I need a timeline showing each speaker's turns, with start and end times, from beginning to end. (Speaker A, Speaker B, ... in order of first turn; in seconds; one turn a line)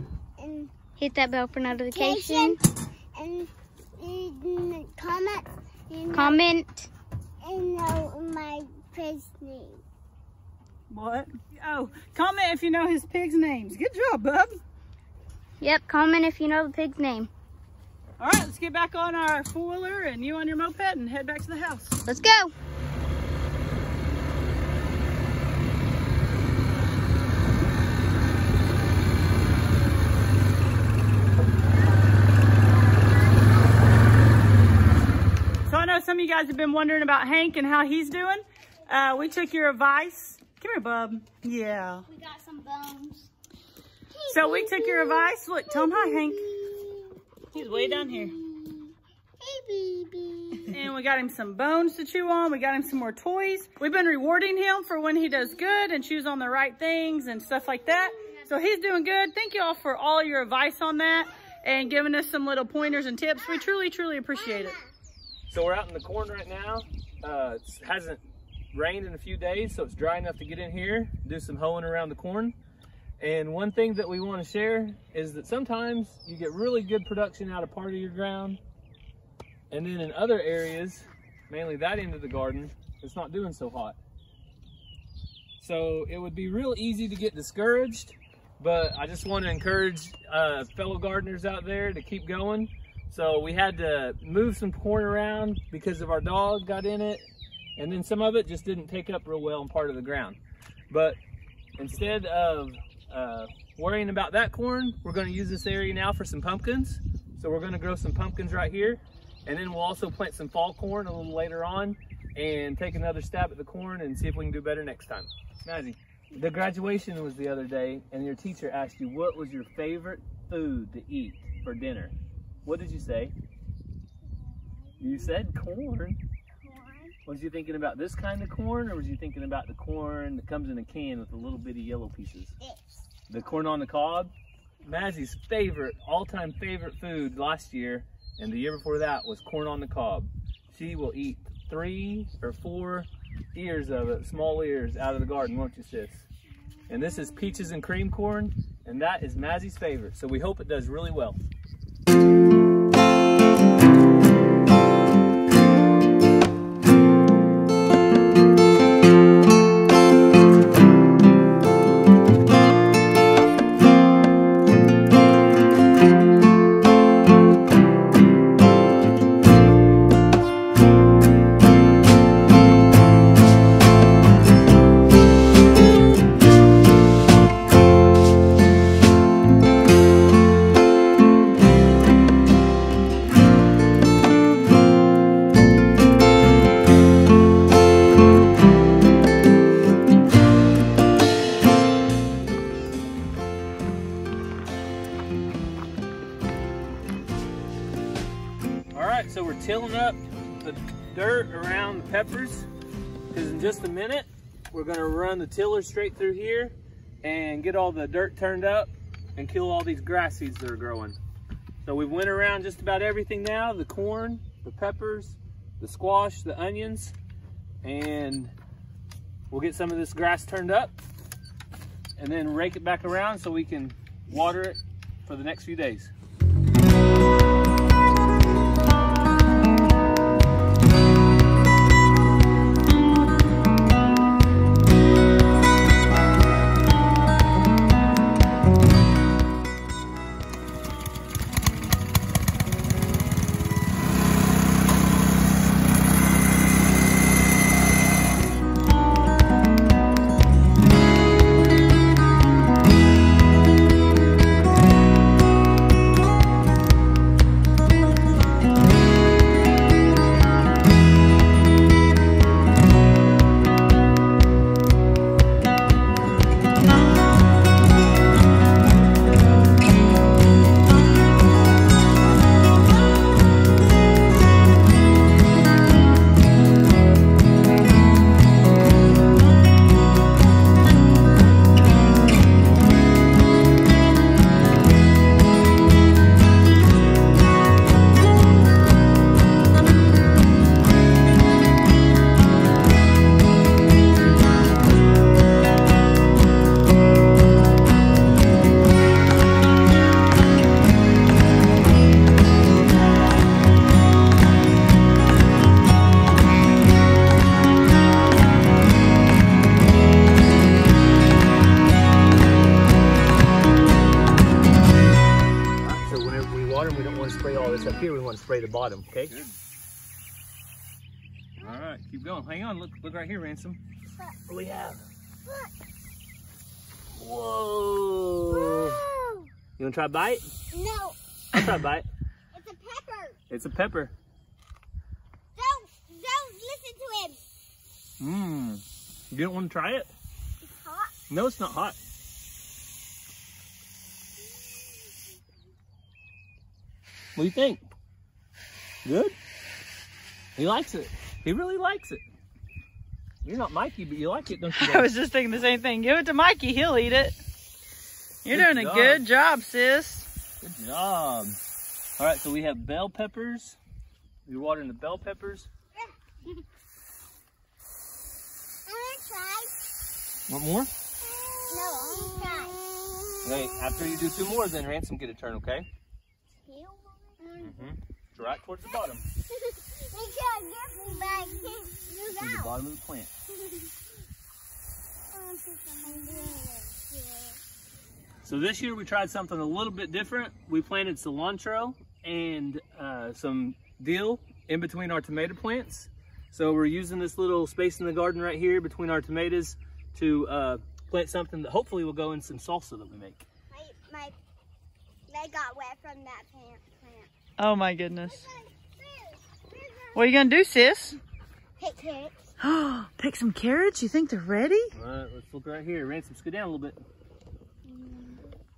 Speaker A: 0.4-0.7
Speaker B: 1.0-2.6
Speaker A: 1.8-2.6
Speaker A: 3.1-6.4
Speaker B: 6.1-6.9
Speaker A: 7.4-9.8
Speaker C: 10.9-14.6
Speaker B: 15.6-17.3
Speaker C: 18.2-22.0
Speaker B: 22.1-22.5
Speaker C: 35.7-42.1
Speaker B: 42.1-43.3
Speaker A: 44.1-45.0
Speaker C: 44.3-46.5
Speaker B: 44.4-46.9
Speaker A: 45.9-46.3
Speaker C: 47.5-48.4
Speaker B: 47.6-50.6
Speaker C: 50.7-64.8
Speaker D: 65.5-68.2
Speaker D: 68.7-72.5
Speaker D: 73.2-78.6
Speaker D: 79.7-84.0
Speaker D: 85.6-97.3
Speaker D: 97.8-100.4
Speaker D: 100.9-101.2
Speaker D: 101.8-122.1
Speaker D: 122.7-123.3
Speaker D: 125.0-126.2
Speaker A: 126.6-127.2
Speaker D: 127.2-132.5
Speaker A: 132.6-133.0
Speaker D: 133.3-134.3
Speaker D: 134.8-146.3
Speaker D: 146.9-151.4
Speaker D: 198.9-202.7
Speaker D: 203.3-211.2
Speaker D: 211.8-217.1
Speaker D: 217.8-218.5
Speaker D: 219.5-220.9
Speaker D: 222.2-226.1
Speaker D: 315.8-319.5
Speaker D: 321.6-323.8
Speaker D: 324.5-325.0
Speaker A: 325.5-325.7
Speaker D: 327.1-329.0
Speaker A: 328.5-329.5
Speaker D: 329.8-330.5
Speaker A: 330.7-331.2
Speaker D: 331.5-332.1
Speaker A: 332.5-333.4
Speaker D: 333.5-334.1
Speaker A: 335.6-337.4
Speaker D: 338.2-340.1
Speaker A: 340.7-341.1
Speaker D: 341.3-342.0
Speaker D: 347.4-347.8
Speaker D: 349.1-349.4
Speaker D: 350.6-352.2
Speaker D: 353.4-355.1
Speaker C: 354.8-357.4
Speaker C: 358.4-360.3
Speaker D: 358.5-359.2
Speaker D: 360.6-361.6
Speaker D: 362.2-363.8
Speaker D: 364.5-365.7
Speaker A: 368.9-369.7
Speaker D: 370.5-370.9
Speaker A: 371.6-372.8
Speaker D: 373.4-375.9
Speaker A: 377.4-377.9
Speaker D: 377.6-379.3
Speaker A: 379.5-382.7
Speaker D: 382.3-383.3
Speaker A: 385.3-387.6
Speaker B: 386.1-386.7
Speaker D: 388.4-403.5
Speaker A: 403.7-404.4
Speaker A: 405.3-407.3
Speaker C: 407.6-408.4
Speaker A: 408.2-410.2
Speaker C: 410.1-411.2
Speaker A: 411.8-412.4
Speaker C: 412.6-414.9
Speaker D: 414.9-417.0
Speaker A: 417.9-418.5